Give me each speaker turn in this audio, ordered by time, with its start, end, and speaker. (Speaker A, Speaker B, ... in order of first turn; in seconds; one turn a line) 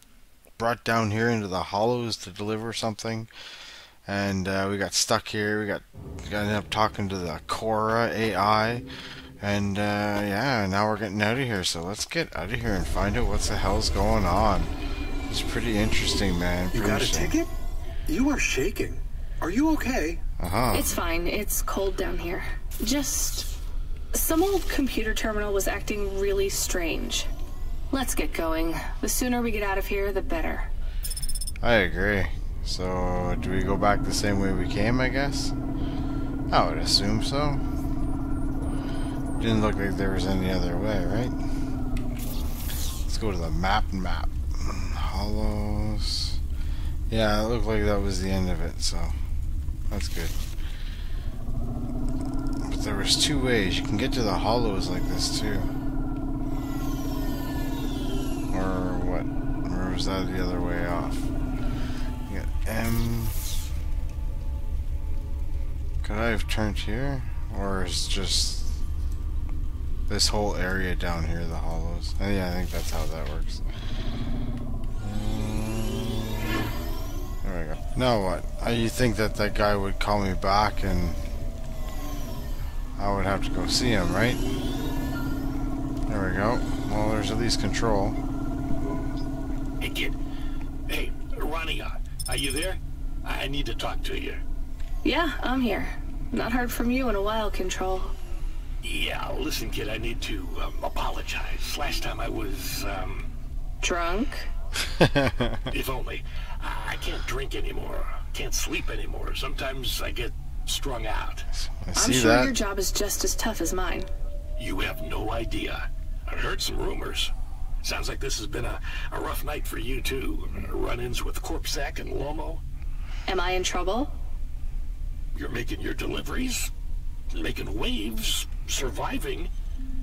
Speaker A: 0.6-3.3
Speaker A: 4.0-8.8
Speaker A: 9.4-14.7
Speaker A: 15.3-17.4
Speaker B: 16.7-17.5
Speaker B: 18.1-20.2
Speaker A: 20.4-21.0
Speaker C: 20.7-23.5
Speaker C: 24.1-27.3
Speaker C: 27.9-30.7
Speaker A: 31.6-35.5
Speaker A: 36.5-37.6
Speaker A: 39.4-41.4
Speaker A: 43.0-46.4
Speaker A: 47.1-49.2
Speaker A: 49.9-50.4
Speaker A: 52.6-55.7
Speaker A: 58.5-61.3
Speaker A: 62.3-63.4
Speaker A: 66.0-68.7
Speaker A: 70.1-73.6
Speaker A: 75.0-76.6
Speaker A: 77.4-81.2
Speaker A: 83.0-84.4
Speaker A: 86.1-88.2
Speaker D: 89.8-90.2
Speaker D: 90.9-94.4
Speaker C: 95.0-98.1
Speaker D: 98.8-103.3
Speaker C: 103.8-104.5
Speaker A: 104.8-105.7
Speaker D: 105.7-111.5
Speaker A: 111.5-112.5
Speaker C: 111.9-114.1
Speaker D: 114.6-117.3
Speaker D: 117.8-122.6
Speaker C: 123.3-124.1
Speaker D: 125.3-126.7
Speaker D: 127.3-129.5